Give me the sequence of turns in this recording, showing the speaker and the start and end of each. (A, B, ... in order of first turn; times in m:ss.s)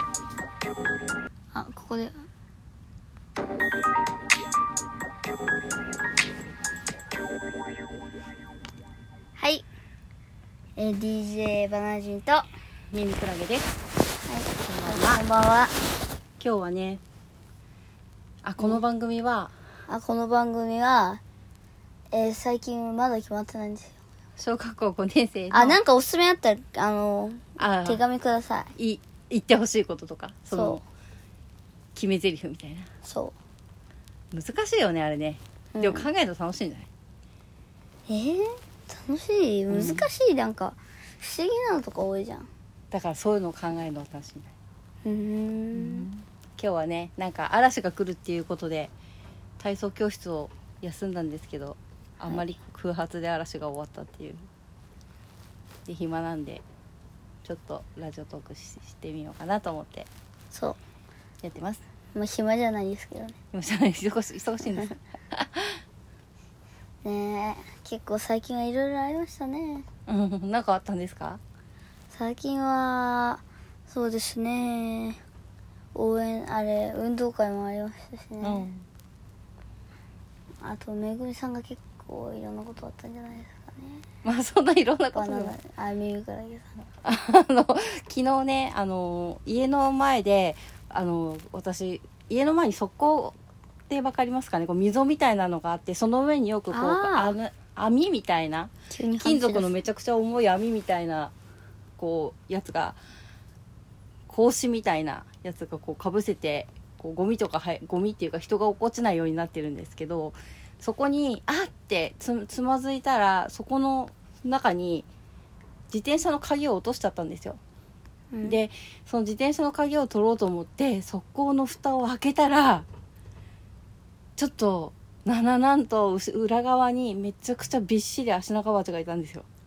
0:01.5-0:02.1 A
0:09.4-0:09.7 A
0:10.8-0:12.5 A
0:12.9-0:13.8 B
0:14.2-0:15.8 A
0:14.6-0:15.2 B
0:16.4-0:17.0 B
0:18.4-0:19.5 B
0:19.9-0:21.2 A
0:22.1-0:24.0 A
0:24.4-0:25.8 B
0:25.5-0:28.7 A
0:27.6-0:28.0 B
0:28.8-0:30.8 B
0:30.5-0:30.8 A
0:32.0-0:32.9 B
0:33.0-0:33.4 A
0:34.3-0:36.9 B
0:35.8-0:36.1 A
0:38.1-0:42.5 A
0:39.7-0:40.1 B
0:42.9-0:44.5 B
0:45.0-0:46.1 A
0:45.7-0:48.9 B
0:49.6-0:54.5 B
0:55.9-0:56.6 B
0:57.4-1:00.1 B
1:00.5-1:00.8 A
1:01.4-1:01.8 B
1:02.1-1:03.4 A
1:03.5-1:05.8 B
1:07.0-1:09.9 A
1:10.1-1:11.4 B
1:12.1-1:15.2 A
1:15.9-1:18.7 A
1:18.4-1:18.9 B
1:20.6-1:24.0 A
1:24.2-1:25.6 B
1:25.2-1:26.7 A
1:27.0-1:33.4 B
1:33.9-1:38.7 B
1:36.7-1:37.4 A
1:38.9-1:39.8 A
1:39.2-1:41.3 B
1:42.0-1:43.0 B
1:44.3-1:55.1 B
1:55.9-1:57.6 B
1:58.3-1:58.6 A
1:58.4-2:02.9 B
2:04.4-2:09.5 B